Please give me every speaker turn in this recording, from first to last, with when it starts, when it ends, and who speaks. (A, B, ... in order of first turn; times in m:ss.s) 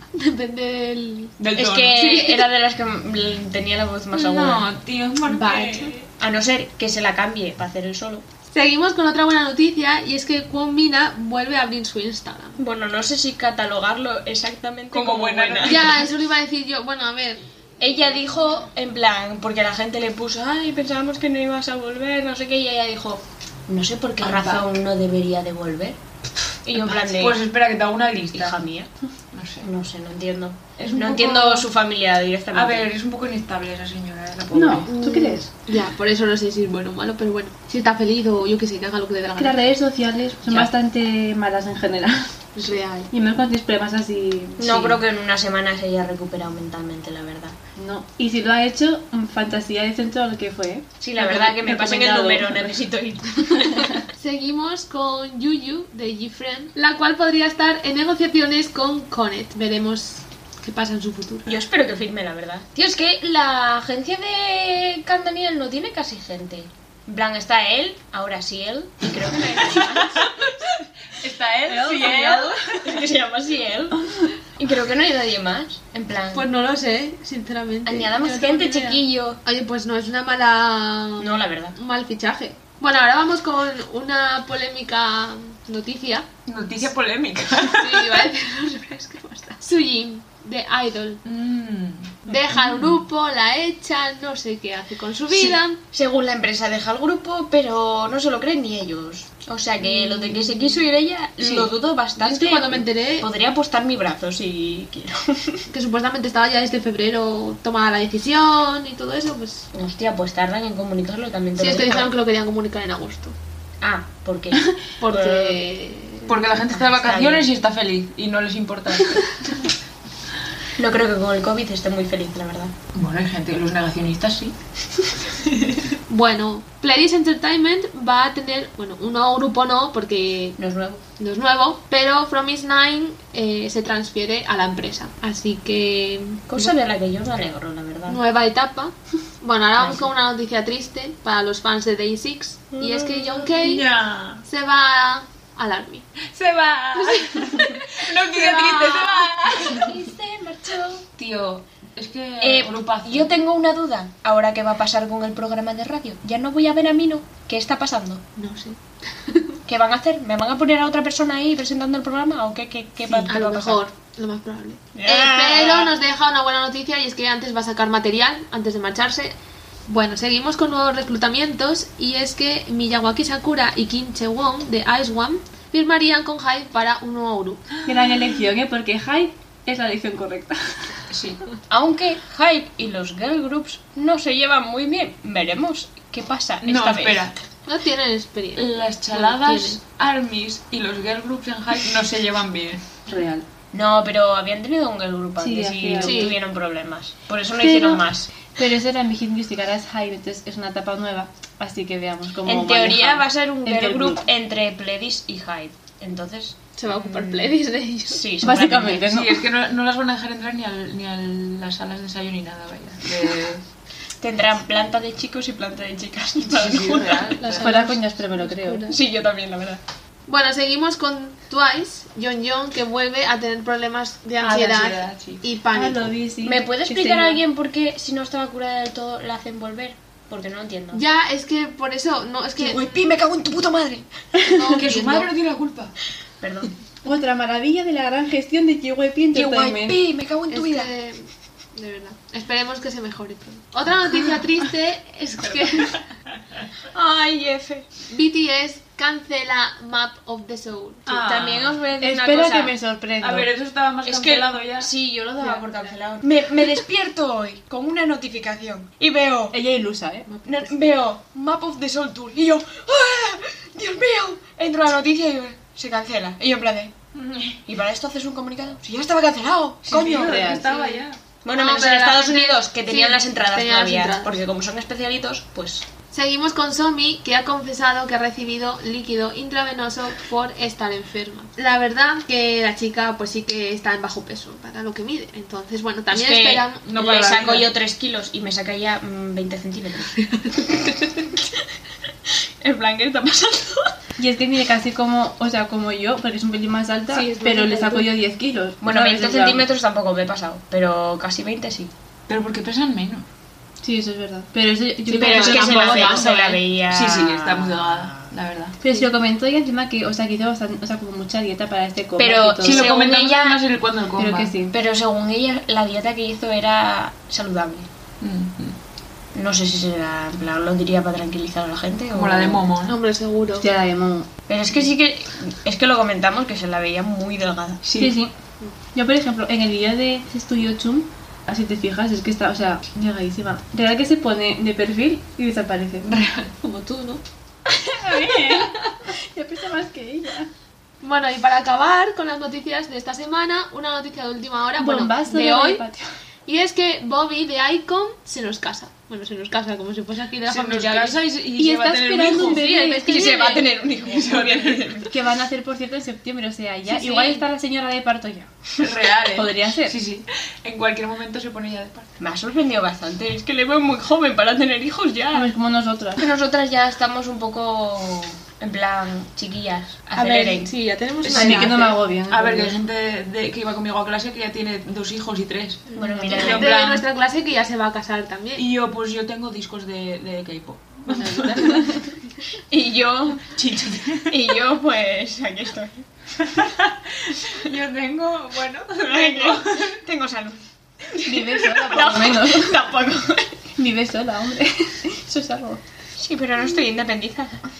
0:00.1-0:01.3 A
0:01.4-0:02.4 B
0:01.6-0:04.6 C
0:04.1-0:06.1 B
0:05.2-0:05.9 A
0:06.2-0:08.2 C
0:08.5-0:12.6 A
0:12.6-0:16.0 C
0:14.9-0:16.1 B
0:15.6-0:17.4 A
0:17.8-0:26.0 C
0:24.2-0:24.6 B
0:26.6-0:27.4 C
0:26.7-0:28.6 B
0:28.3-0:28.9 C
0:29.3-0:29.7 B
0:29.6-0:32.9 C
0:30.8-0:31.7 B
0:32.5-0:34.9 B
0:34.5-0:35.5 D
0:34.9-0:39.6 A
0:39.4-0:42.3 D
0:42.5-0:43.1 A
0:43.1-0:45.0 D
0:44.6-0:47.6 C
0:47.8-0:52.8 D
0:51.0-0:54.0 C
0:54.2-1:01.5 A
1:01.4-1:10.3 C
1:09.7-1:13.1 B
1:11.7-1:16.5 C
1:16.3-1:26.3 A
1:17.8-1:19.4 C
1:21.2-1:21.8 C
1:26.5-1:28.2 B
1:27.6-1:31.2 A
1:31.2-1:33.0 B
1:32.2-1:35.8 A
1:35.3-1:45.6 C
1:39.8-1:40.6 A
1:42.2-1:43.3 A
1:45.7-1:49.7 A
1:49.7-1:52.1 C
1:51.6-1:53.3 A
1:53.8-1:55.6 C
1:55.0-1:56.5 A
1:56.3-1:59.6 B
1:56.8-1:57.5 C
2:00.8-2:02.7 C
2:02.9-2:05.9 B
2:06.1-2:10.6 A
2:10.6-2:11.0 C
2:11.2-2:16.7 A
2:16.5-2:18.2 C
2:18.1-2:23.8 A
2:19.8-2:20.1 C
2:22.8-2:23.4 C
2:23.5-2:24.4 B
2:24.4-2:26.0 A
2:26.3-2:30.0 B
2:26.9-2:29.8 A
2:28.4-2:28.8 C
2:29.6-2:31.0 C
2:31.2-2:33.3 B
2:32.4-2:38.2 C
2:38.4-2:39.6 A
2:39.6-2:43.8 C
2:43.0-2:43.3 B
2:43.3-2:49.3 A
2:44.9-2:45.9 C
2:49.9-2:57.6 A
2:57.8-3:01.0 D
3:01.1-3:01.4 B
3:01.7-3:07.3 C
3:06.6-3:07.3 B
3:07.6-3:09.8 A
3:08.5-3:12.8 B
3:13.1-3:13.4 D
3:13.7-3:18.3 C
3:15.4-3:16.4 D
3:16.0-3:16.4 A
3:17.6-3:24.2 D
3:22.4-3:27.5 C
3:26.8-3:28.2 A
3:28.1-3:29.1 C
3:28.4-3:29.4 D
3:29.0-3:33.6 B
3:34.2-3:37.4 C
3:36.4-3:37.7 B
3:37.1-3:39.0 A
3:37.6-3:38.9 D
3:38.9-3:39.8 C
3:40.3-3:46.1 A
3:44.4-3:45.4 B
3:45.7-3:47.4 D
3:46.4-3:51.0 C
3:50.9-3:53.1 A
3:52.6-3:54.1 C
3:54.4-3:55.3 A
3:54.7-3:55.9 B
3:56.4-3:56.7 C
3:57.0-3:59.9 D
3:59.3-4:00.9 C
4:00.5-4:06.0 A
4:06.9-4:07.9 C
4:08.1-4:11.2 A
4:11.1-4:11.8 B
4:11.1-4:12.7 C
4:12.0-4:13.5 D
4:13.2-4:14.9 B
4:14.0-4:19.5 C
4:19.5-4:20.2 D
4:20.4-4:26.9 C
4:27.1-4:27.6 B
4:27.6-4:30.6 C
4:29.8-4:31.2 B
4:30.1-4:30.8 D
4:30.6-4:34.4 A
4:31.4-4:35.8 C
4:36.1-4:46.8 A
4:46.1-4:50.2 C
4:46.8-4:47.7 B
4:50.2-4:51.2 A
4:52.6-4:53.9 C
4:54.2-4:59.6 D
4:57.1-4:58.1 A
4:58.8-5:01.9 C
5:02.3-5:03.2 B
5:03.8-5:06.6 D
5:05.1-5:06.6 A
5:05.1-5:08.2 C
5:06.9-5:08.8 B
5:08.8-5:12.9 D
5:12.2-5:13.6 C
5:12.6-5:14.5 B
5:14.2-5:14.7 D
5:14.7-5:17.9 C
5:18.2-5:18.8 B
5:19.3-5:22.6 C
5:22.1-5:22.9 B
5:22.9-5:23.7 A
5:23.6-5:24.3 D
5:24.5-5:27.8 C
5:27.8-5:28.1 B
5:28.0-5:28.3 D
5:28.9-5:36.1 D
5:36.0-5:36.5 B
5:36.6-5:37.2 A
5:37.7-5:40.5 D
5:41.0-5:45.8 A
5:44.8-5:46.1 D
5:46.4-5:51.2 A
5:50.4-5:52.6 B
5:51.6-5:53.6 D
5:52.3-5:53.6 A
5:52.6-5:55.1 C
5:53.9-5:55.1 B
5:55.1-5:58.5 D
5:58.8-6:02.1 B
5:59.2-6:00.0 D
6:02.2-6:05.5 C
6:05.3-6:06.3 D
6:06.2-6:10.7 C
6:10.2-6:12.0 A
6:11.2-6:17.0 B
6:11.3-6:12.8 D
6:15.9-6:18.6 A
6:16.0-6:16.7 C
6:16.1-6:16.6 D
6:18.6-6:22.0 B
6:21.1-6:22.0 D
6:22.7-6:26.0 C
6:23.6-6:24.5 B
6:26.4-6:30.0 B
6:29.0-6:33.6 C
6:31.2-6:32.9 D
6:33.8-6:35.8 D
6:36.2-6:37.6 C